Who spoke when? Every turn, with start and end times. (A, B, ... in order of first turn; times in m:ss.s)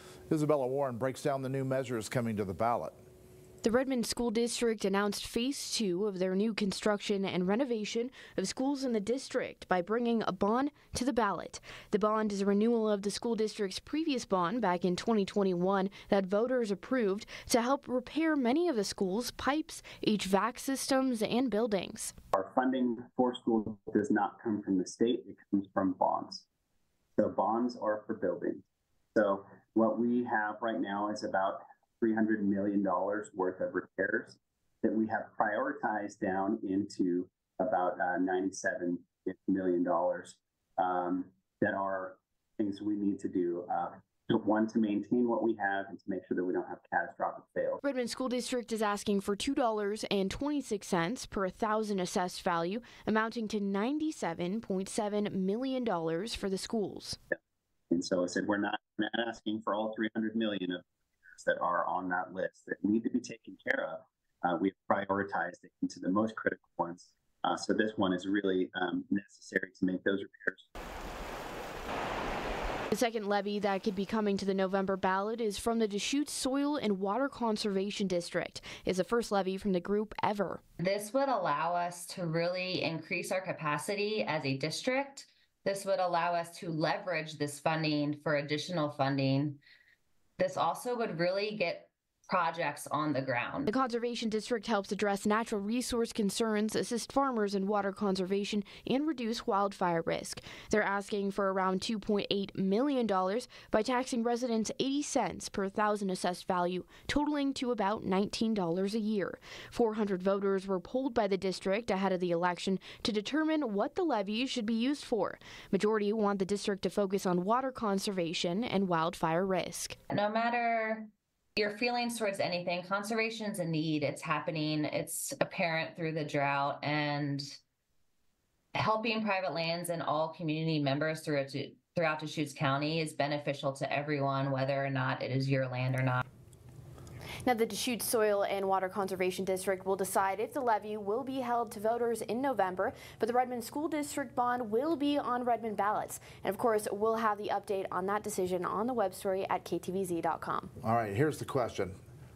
0:00.3-0:02.9 A
0:03.6-0:22.1 B
0:22.3-0:26.4 C
0:27.2-0:47.8 C
0:47.8-0:57.2 B
0:57.9-1:00.8 C
1:01.4-1:10.7 C
1:12.9-1:20.6 B
1:20.8-1:29.6 D
1:30.4-1:33.7 D
1:33.7-2:00.0 B
2:00.1-2:07.6 D
2:08.7-2:16.2 D
2:17.4-2:30.7 B
2:30.8-2:31.9 A